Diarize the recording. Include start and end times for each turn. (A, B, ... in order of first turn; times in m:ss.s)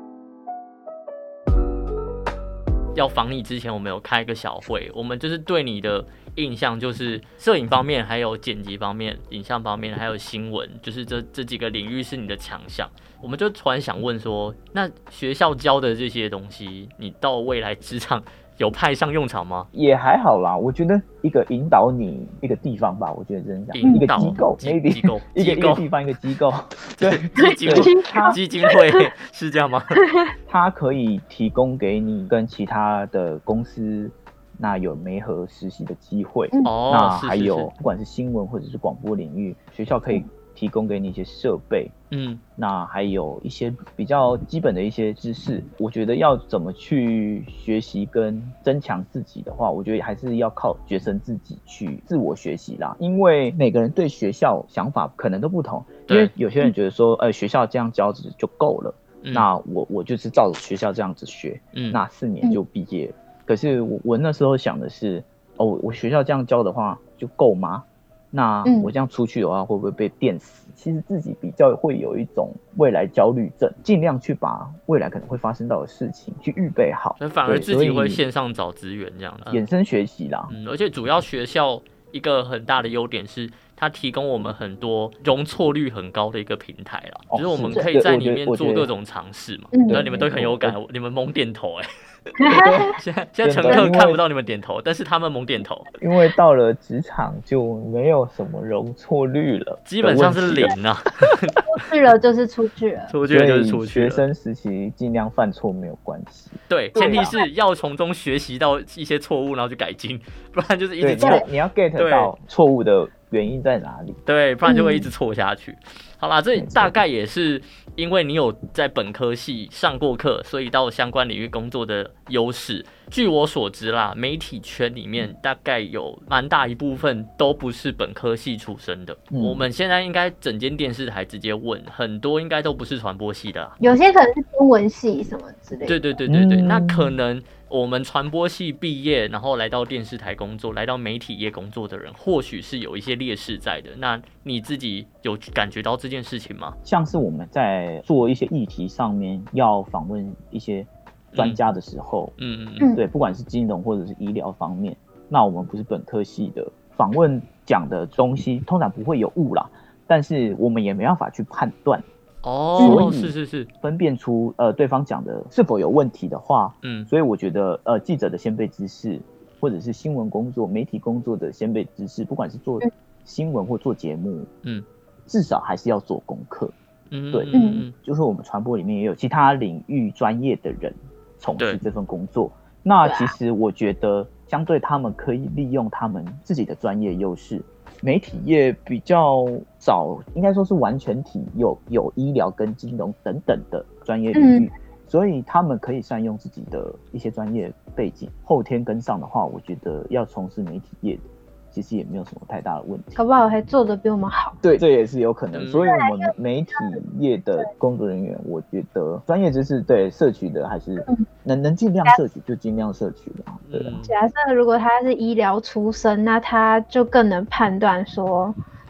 0:03.0-0:19.7 A
0:19.7-0:28.4 B
0:23.7-0:25.9 A
0:23.8-0:24.4 C
0:27.0-0:30.0 A
0:27.4-0:29.1 C
0:30.0-0:30.3 C
0:30.5-0:41.9 B
0:36.6-0:37.7 A
0:42.1-0:42.4 A
0:42.6-1:18.2 B
0:56.1-0:56.3 A
0:59.2-0:59.5 A
1:01.7-1:02.0 A
1:08.6-1:08.9 C
1:17.2-1:19.6 A
1:19.5-1:20.5 B
1:20.5-1:31.9 A
1:27.3-1:28.9 B
1:29.7-1:30.0 C
1:29.8-1:30.8 B
1:32.4-1:33.0 C
1:32.5-1:35.9 A
1:32.5-1:32.9 B
1:33.4-1:34.2 B
1:36.0-1:40.8 B
1:39.9-1:41.6 A
1:41.7-1:43.1 C
1:43.1-1:44.2 A
1:43.3-1:47.4 B
1:46.7-1:52.3 A
1:47.0-1:47.4 C
1:51.0-1:54.2 B
1:54.3-2:13.8 A
1:54.7-1:55.1 C
1:56.6-1:57.0 B
2:09.3-2:09.7 B
2:13.8-2:16.0 C
2:15.9-2:26.8 A
2:16.3-2:17.2 B
2:26.8-2:32.4 B
2:31.3-2:31.6 A
2:32.4-2:32.9 A
2:32.9-2:42.0 B
2:42.4-2:43.7 A
2:42.8-2:54.5 B
2:42.8-2:43.1 C
2:46.8-2:47.1 A
2:55.3-2:56.7 B
2:57.1-2:58.0 A
2:57.3-3:23.2 B
2:57.5-2:57.8 C
3:03.0-3:03.3 C
3:14.3-3:14.7 C
3:23.2-3:24.6 C
3:24.6-3:34.0 B
3:25.5-3:25.9 A
3:25.9-3:26.3 C
3:33.6-3:34.2 A
3:34.0-3:38.6 C